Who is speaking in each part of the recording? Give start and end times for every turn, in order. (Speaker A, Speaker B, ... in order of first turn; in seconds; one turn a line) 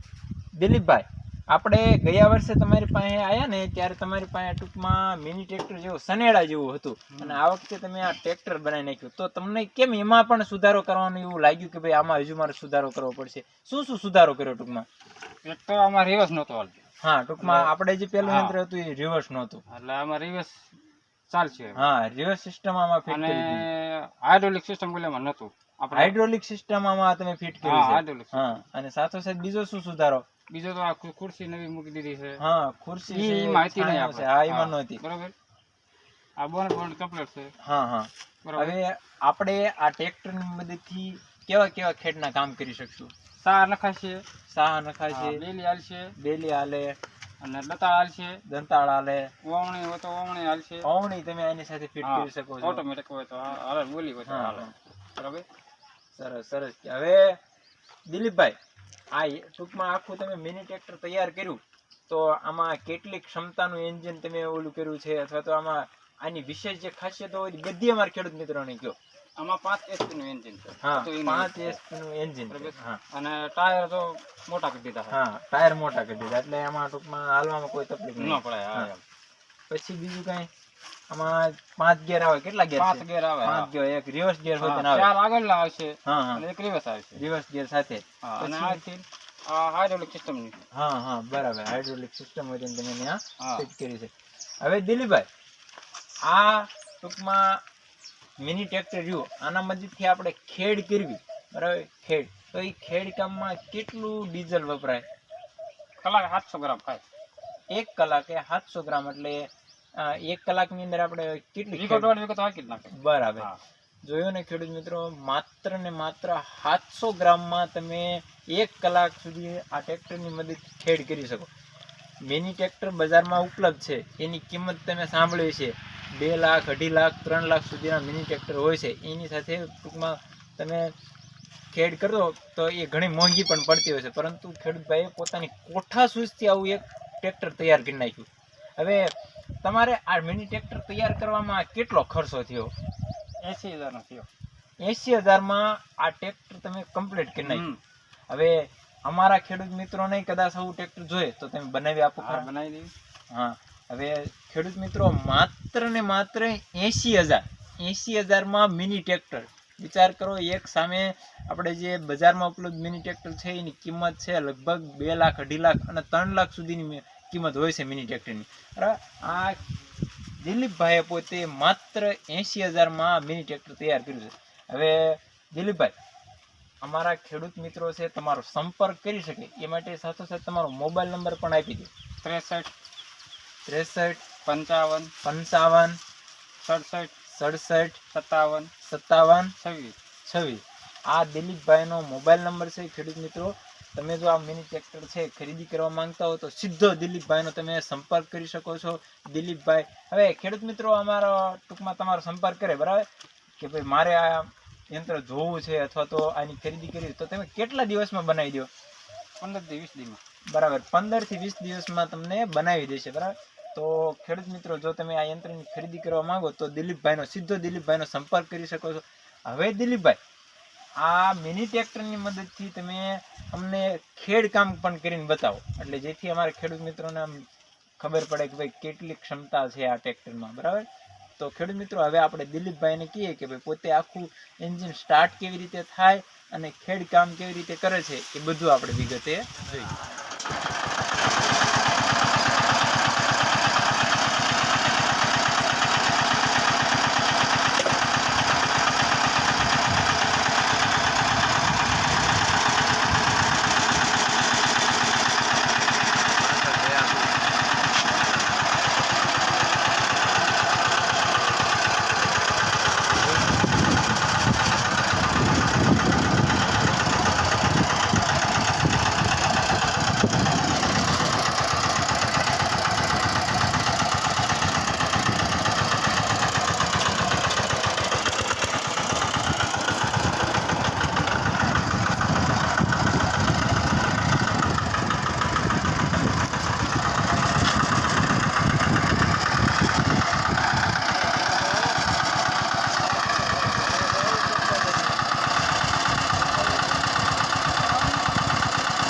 Speaker A: 0.5-14.9
Speaker B: 7.1-7.4
Speaker B: 15.4-16.8
Speaker A: 17.0-19.6
Speaker B: 17.4-18.6
Speaker B: 19.7-20.6
Speaker B: 21.3-21.9
Speaker A: 21.8-23.6
Speaker B: 23.1-26.2
Speaker A: 25.9-30.3
Speaker B: 27.6-28.6
Speaker B: 30.5-32.4
Speaker A: 32.4-35.0
Speaker B: 33.1-35.3
Speaker B: 36.4-37.5
Speaker A: 37.6-43.1
Speaker B: 38.5-38.8
Speaker B: 43.4-44.3
Speaker A: 44.4-45.4
Speaker B: 45.1-46.2
Speaker A: 46.2-47.0
Speaker B: 47.4-48.4
Speaker A: 48.5-49.3
Speaker B: 49.4-50.9
Speaker A: 50.8-52.8
Speaker B: 52.0-55.5
Speaker A: 54.3-54.7
Speaker A: 56.1-57.4
Speaker A: 58.1-58.6
Speaker A: 59.1-69.0
Speaker B: 69.4-71.8
Speaker A: 70.8-73.0
Speaker B: 72.5-75.2
Speaker A: 75.1-78.9
Speaker B: 78.2-79.0
Speaker A: 79.7-80.5
Speaker A: 81.1-85.1
Speaker B: 82.8-83.7
Speaker B: 84.6-87.2
Speaker A: 86.0-86.4
Speaker A: 87.2-88.8
Speaker B: 88.2-90.6
Speaker A: 90.7-95.3
Speaker B: 93.4-93.7
Speaker A: 96.2-97.6
Speaker A: 98.4-105.1
Speaker B: 106.0-107.0
Speaker A: 107.7-112.2
Speaker B: 111.7-113.6
Speaker A: 112.9-113.5
Speaker A: 114.0-121.5
Speaker A: 122.2-130.9
Speaker A: 131.7-142.7
Speaker B: 143.4-144.3
Speaker A: 144.8-147.7
Speaker B: 147.4-147.8
Speaker A: 148.3-152.5
Speaker B: 152.2-152.9
Speaker A: 153.3-169.6
Speaker A: 170.4-175.9
Speaker A: 176.8-181.9
Speaker B: 182.2-182.7
Speaker A: 183.7-184.3
Speaker B: 184.3-185.1
Speaker A: 185.2-186.0
Speaker B: 186.6-187.2
Speaker A: 187.2-188.0
Speaker B: 188.1-188.7
Speaker A: 188.8-189.5
Speaker B: 189.6-190.0
Speaker A: 190.3-208.7
Speaker B: 209.4-210.2
Speaker A: 210.5-220.2
Speaker A: 221.0-227.5
Speaker A: 228.0-239.9
Speaker B: 293.8-295.1